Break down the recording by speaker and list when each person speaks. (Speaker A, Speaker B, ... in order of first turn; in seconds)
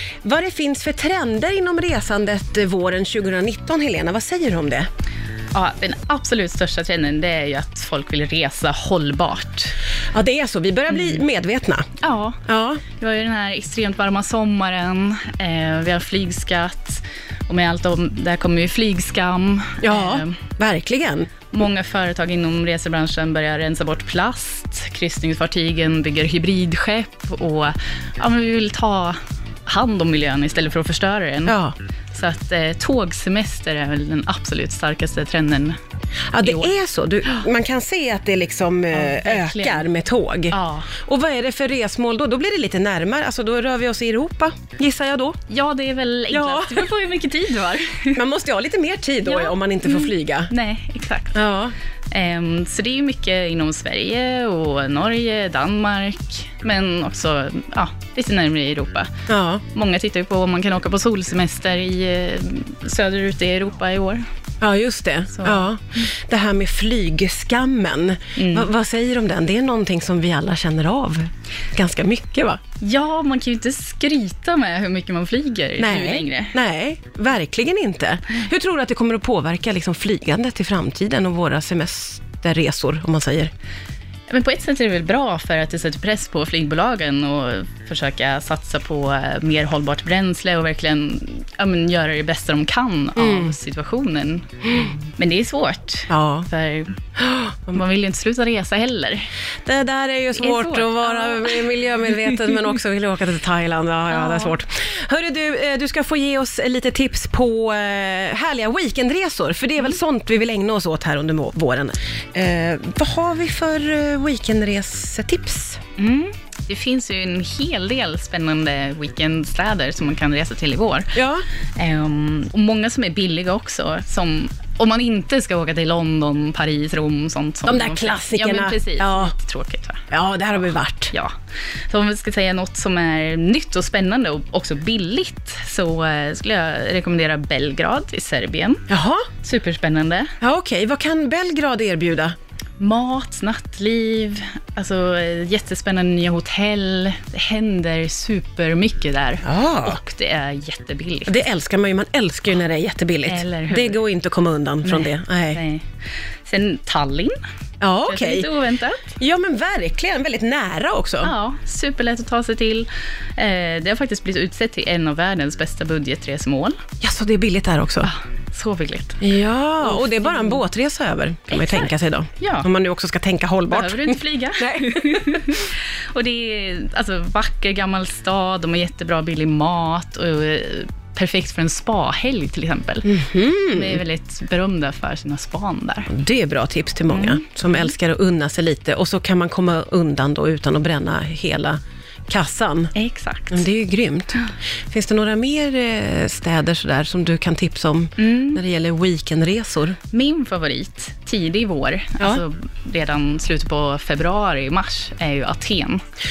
Speaker A: 0.2-4.9, 10.1-11.9, 12.4-12.8, 19.8-21.3, 31.4-31.7, 36.3-45.4, 46.3-46.9, 48.1-50.5, 51.3-51.7, 59.3-59.6, 64.6-72.6, 75.8-83.5, 93.2-93.5, 96.1-96.5, 97.2-97.6, 99.6-115.8, 121.1-121.5, 127.7-129.3, 130.1-131.1, 138.9-139.3, 140.4-142.3, 149.4-150.0, 151.3-155.6, 157.8-158.5, 159.1-161.3, 167.0-168.1, 169.2-175.4, 183.0-184.0, 186.1-192.9, 193.5-200.0
Speaker B: 5.5-9.7, 10.9-11.2, 12.0-20.4, 21.5-31.6, 32.1-35.8, 36.4-36.7, 38.9-39.9, 40.5-40.9, 45.5-48.2, 49.2-51.4, 52.1-59.1, 59.7-64.2, 65.3-65.7, 68.3-68.7, 72.8-76.6, 84.3-97.0, 97.7-99.3, 100.3-102.6, 104.1-104.5, 116.0-121.2, 121.8-130.1, 131.9-138.9, 139.4-140.3, 142.8-151.4, 153.2-154.0, 154.8-155.9, 156.4-157.3, 158.0-159.0, 161.2-166.8, 168.0-169.2, 169.8-170.6, 171.5-171.9, 172.4-172.7, 173.7-183.2, 183.7-186.1, 187.1-187.8, 192.9-193.7, 198.2-198.6, 200.1-206.0